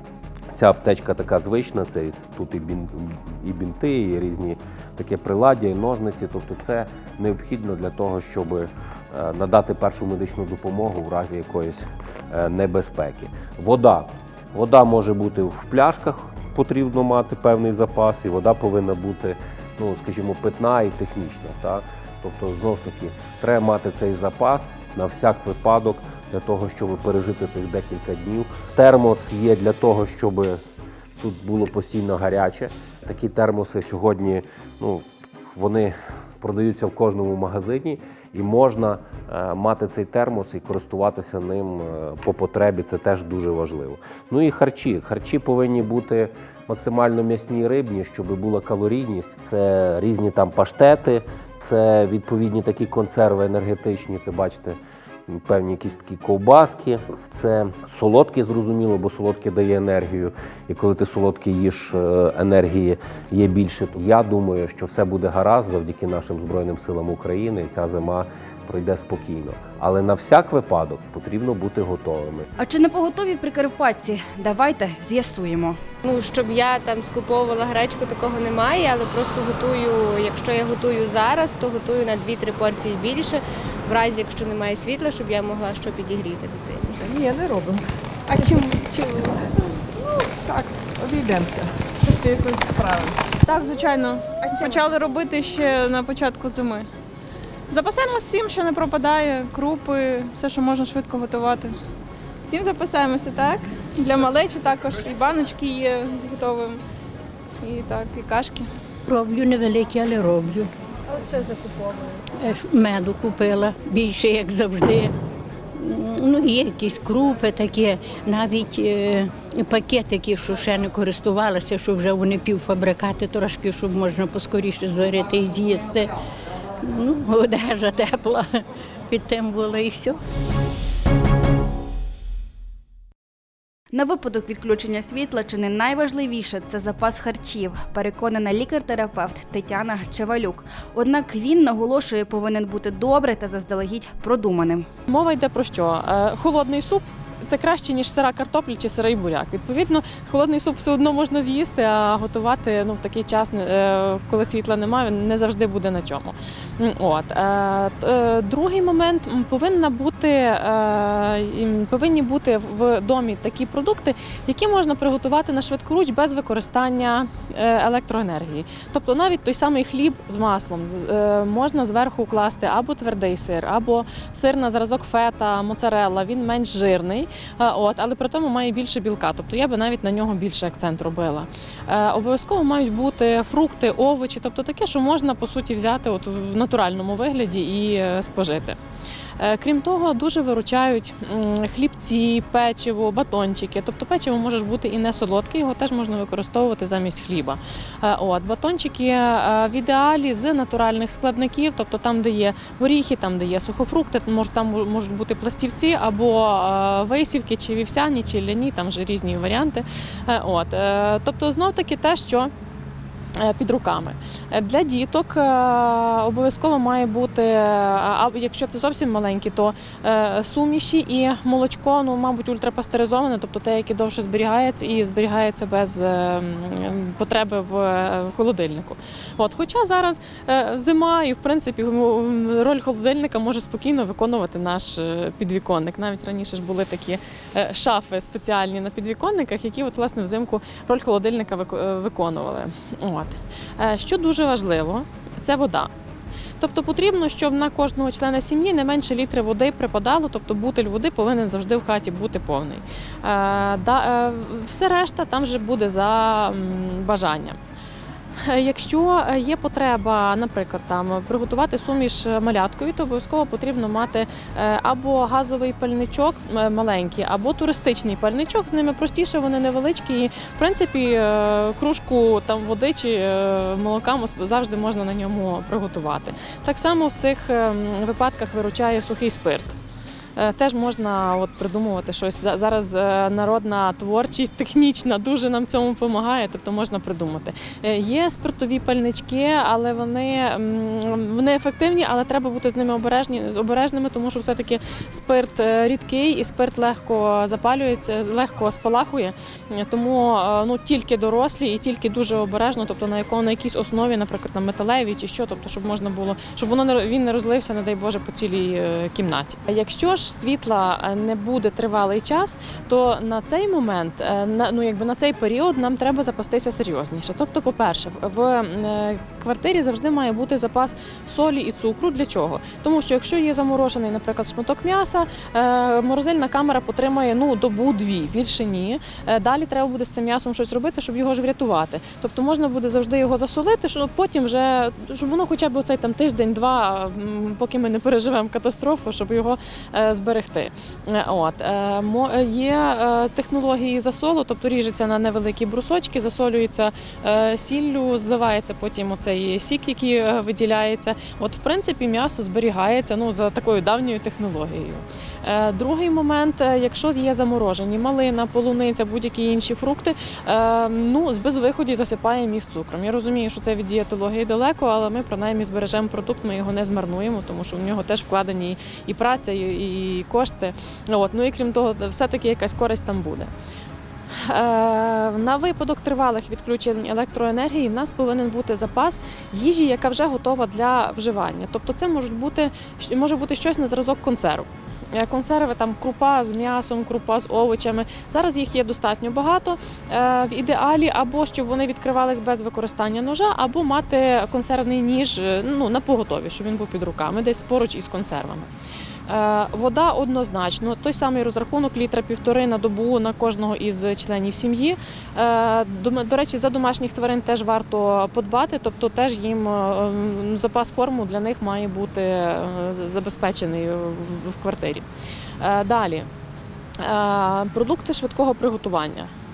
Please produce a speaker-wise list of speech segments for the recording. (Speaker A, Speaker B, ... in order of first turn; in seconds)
Speaker A: 0.5-30.6, 31.2-72.5
Speaker B: 72.6-75.8, 133.9-144.9
Speaker C: 76.0-87.0
Speaker D: 87.0-87.8, 88.3-89.4, 90.5-91.1, 92.1-96.9, 97.7-101.8, 102.5-106.8, 107.6-108.7, 111.3-112.1
Speaker E: 87.1-87.7, 91.0-91.6, 92.4-93.1
Speaker F: 109.1-110.7, 112.4-115.1, 115.8-126.1, 126.9-128.4, 129.1-130.2
Speaker G: 145.1-188.8, 189.4-212.5, 213.4-245.9, 246.6-257.6, 258.5-279.8, 280.4-373.5, 374.4-398.7, 399.3-415.1, 415.6-416.3, 417.0-419.3